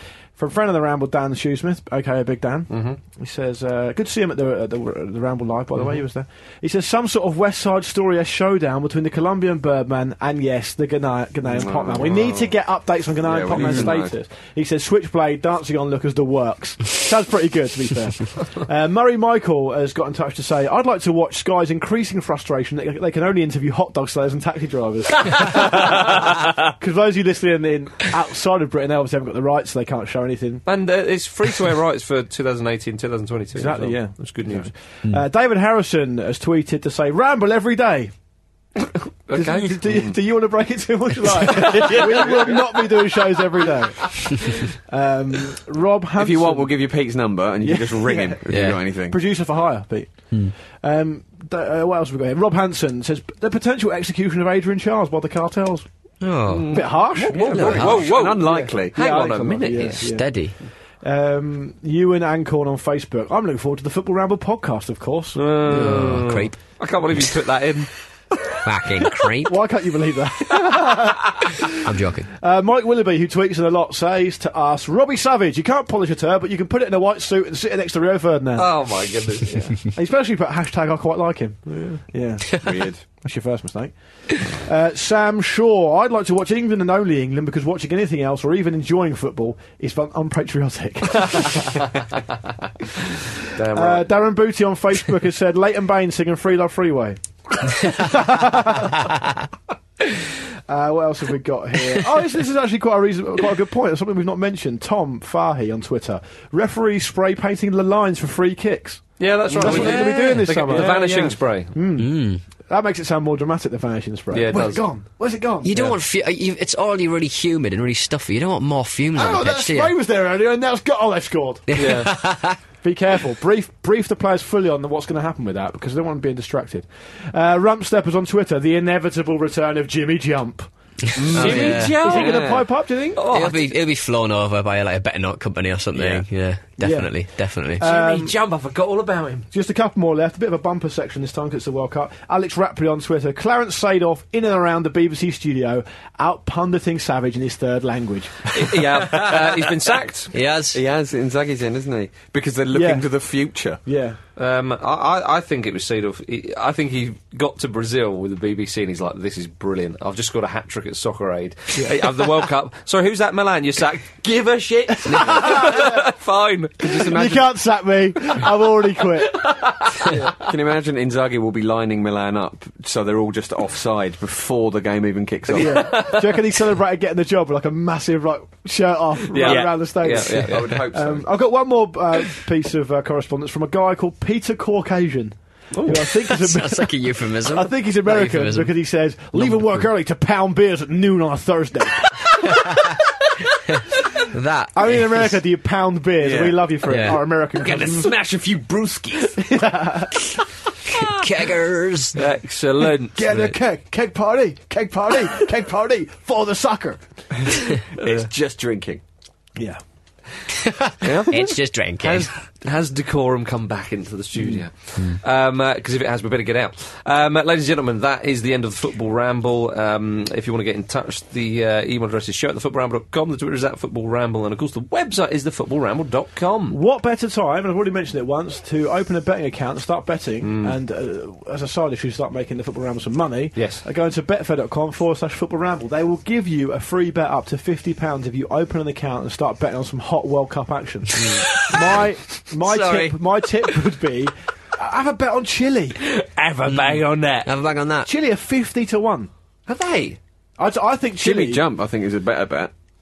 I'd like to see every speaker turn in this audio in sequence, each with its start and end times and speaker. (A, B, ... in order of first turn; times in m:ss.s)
0:00.4-0:30.6 A
0:02.7-0:03.0 B
0:05.8-0:06.0 B
0:11.4-0:12.5 C
0:13.2-0:14.1 C
0:25.3-0:26.1 B
0:30.6-0:34.7 B
0:33.5-0:38.1 A
0:39.3-0:39.7 B
0:39.3-0:46.7 A
0:41.4-0:43.7 B
0:46.2-0:49.2 C
0:47.6-0:50.1 A
0:48.5-0:48.8 D
0:50.8-0:55.8 A
0:56.2-0:58.1 D
0:56.7-1:00.2 A
0:57.1-1:00.1 B
0:57.3-0:59.2 C
1:00.0-1:00.5 D
1:01.0-1:06.1 A
1:05.4-1:07.9 B
1:05.7-1:06.6 D
1:08.6-1:09.5 D
1:09.2-1:18.7 A
1:11.8-1:12.3 D
1:18.6-1:19.8 B
1:19.8-1:31.9 A
1:22.5-1:23.1 C
1:33.5-1:34.1 B
1:33.7-1:39.2 A
1:40.7-1:55.9 A
1:49.2-1:51.8 B
1:49.6-1:50.9 D
1:52.0-1:52.4 D
1:54.3-1:54.8 B
1:55.6-1:59.9 D
1:59.2-2:02.1 A
2:01.7-2:02.6 D
2:01.8-2:02.1 B
2:02.8-2:13.2 A
2:11.2-2:12.7 C
2:11.3-2:12.6 B
2:11.3-2:11.9 D
2:13.2-2:13.6 B
2:13.2-2:17.8 D
2:16.0-2:16.2 C
2:16.8-2:17.1 A
2:17.6-2:18.3 A
2:17.8-2:19.5 B
2:19.5-2:29.6 A
2:28.5-2:30.3 B
2:30.3-2:30.8 D
2:30.7-2:33.8 C
2:32.7-2:33.1 A
2:33.8-2:34.2 A
2:34.4-2:47.1 B
2:45.1-2:46.0 A
2:45.1-2:45.4 D
2:46.8-2:47.5 C
2:46.9-2:50.3 A
2:49.3-2:50.3 B
2:50.4-2:55.9 C
2:55.5-3:13.0 A
2:55.6-2:56.4 B
2:59.3-3:00.8 B
2:59.4-2:59.7 C
3:00.2-3:01.3 C
3:05.7-3:06.1 B
3:06.2-3:08.7 D
3:09.3-3:09.8 D
3:12.5-3:13.0 D
3:14.3-3:15.3 D
3:14.7-3:18.1 A
3:16.2-3:19.4 C
3:16.8-3:17.2 D
3:19.4-3:20.4 A
3:20.9-3:22.2 D
3:22.1-3:23.5 B
3:23.1-3:27.0 A
3:27.5-3:29.0 C
3:28.0-3:28.3 B
3:30.6-3:32.3 D
3:31.0-3:46.8 B
3:46.7-4:06.0 A
3:50.4-3:50.8 B
3:53.5-3:53.8 B
4:01.2-4:01.7 B
4:02.6-4:03.2 B
4:06.0-4:07.5 B
4:06.7-4:08.1 D
4:08.0-4:09.3 A
4:09.7-4:10.2 B
4:10.6-4:11.6 A
4:11.2-4:12.7 C